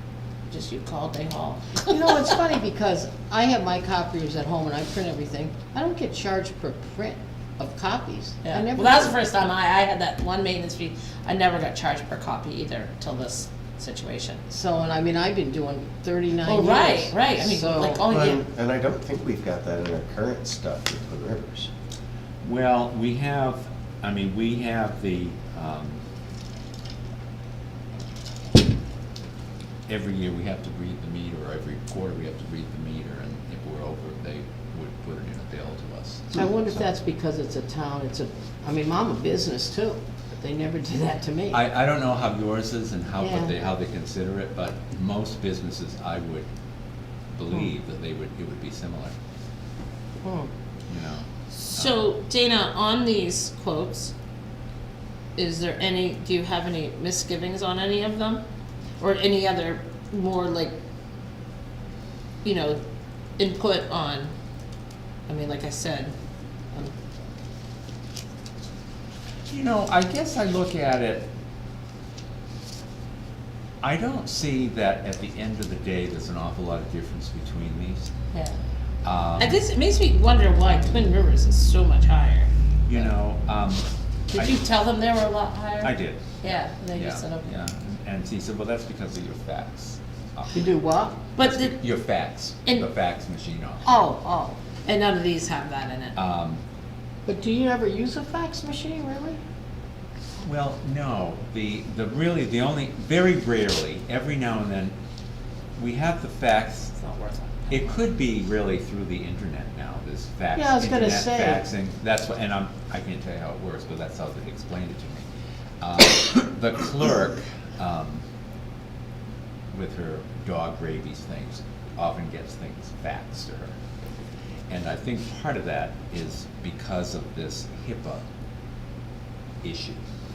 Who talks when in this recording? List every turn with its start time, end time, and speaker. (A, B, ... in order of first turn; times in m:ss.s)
0:00.5-0:02.0 A
0:01.9-0:09.2 B
0:08.4-0:14.4 A
0:14.5-0:18.0 B
0:16.5-0:18.4 A
0:18.1-0:21.7 C
0:22.4-0:26.0 D
0:29.9-0:36.9 D
0:36.4-0:41.6 B
0:41.5-0:46.5 D
0:43.2-0:43.5 B
0:47.3-0:49.1 D
0:50.2-0:50.5 B
0:50.9-0:52.0 D
0:51.5-0:54.1 A
0:55.4-0:58.4 A
0:59.0-1:00.8 A
1:02.4-1:02.8 A
1:03.4-1:04.3 A
1:05.3-1:06.1 A
1:09.5-1:11.3 D
1:13.8-1:18.1 D
1:18.3-1:18.6 A
1:19.0-1:19.6 D
1:19.4-1:23.1 A
1:22.9-1:24.6 D
1:24.3-1:27.5 A
1:25.8-1:30.7 D
1:30.5-1:31.2 B
1:31.4-1:31.8 A
1:31.4-1:34.1 D
1:33.8-1:36.2 A
1:36.2-1:36.6 D
1:37.2-1:39.4 B
1:40.4-1:45.0 D
1:45.8-1:47.0 D
1:47.0-1:48.0 A
1:47.7-1:55.3 D
1:50.6-1:51.6 B
1:55.8-1:58.2 D
1:59.7-2:03.8 D
2:04.7-2:08.2 D
2:09.6-2:10.0 D